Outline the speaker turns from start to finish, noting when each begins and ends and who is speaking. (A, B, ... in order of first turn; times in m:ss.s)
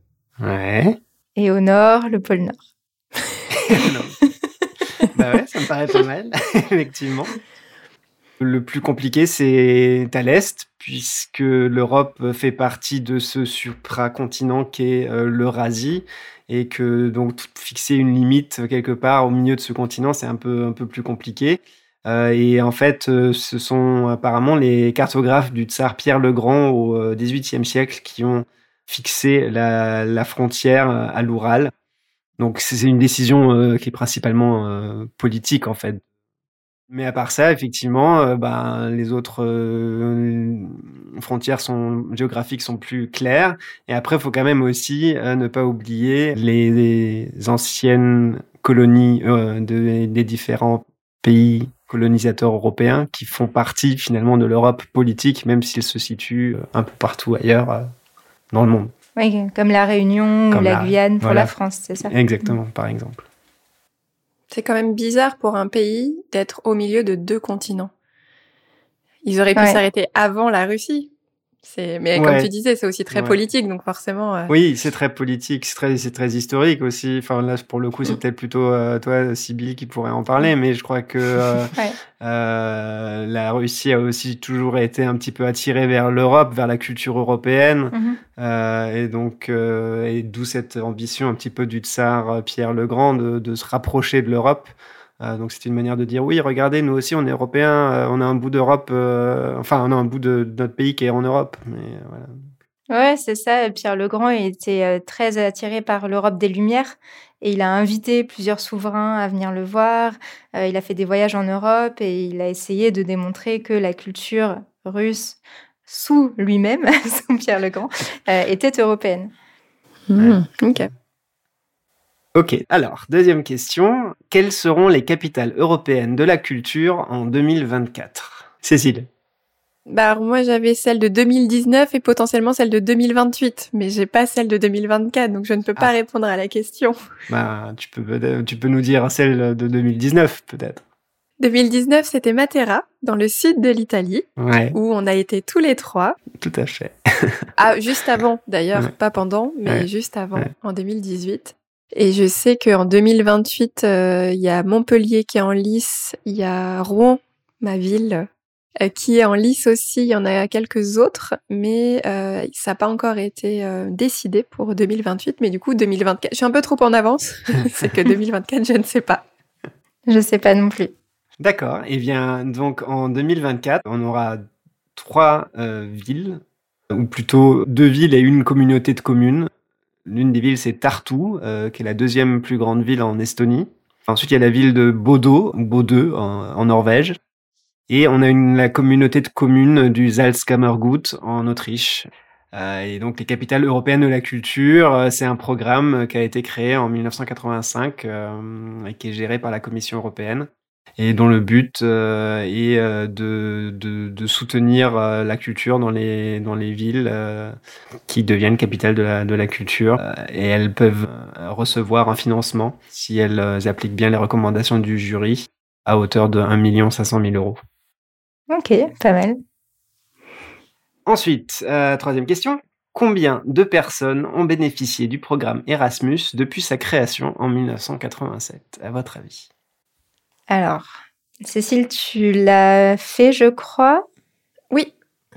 0:00.4-0:01.0 A
0:01.4-0:02.6 B
0:03.5-0:04.2 A
0:05.1-0:07.4 A
0:08.4-0:31.7 A
0:32.4-0:36.0 A
0:36.9-0:57.9 A
0:58.5-0:58.9 A
0:59.2-1:02.5 B
1:00.5-1:01.5 A
1:02.0-1:03.3 A
1:04.5-1:07.9 C
1:09.2-1:11.1 C
1:09.6-1:09.8 B
1:11.6-1:14.5 C
1:12.2-1:12.5 A
1:14.5-1:42.3 A
1:27.9-1:28.2 B
1:42.9-1:59.3 B
2:00.1-2:00.9 C
2:02.4-2:09.1 A
2:09.9-2:17.0 C
2:17.3-2:20.8 A
2:21.4-2:26.2 C
2:24.4-2:24.8 A
2:26.3-2:27.5 A
2:27.6-2:38.3 C
2:29.7-2:30.5 A
2:38.8-2:49.2 C
2:50.1-2:50.9 B
2:51.4-2:54.4 A
2:55.0-2:59.5 A
3:00.0-3:07.2 A
3:07.9-3:27.6 A
3:28.1-3:37.6 A
3:38.5-3:39.4 B
3:41.1-3:49.5 A
3:50.5-3:50.9 B
3:51.4-3:54.1 B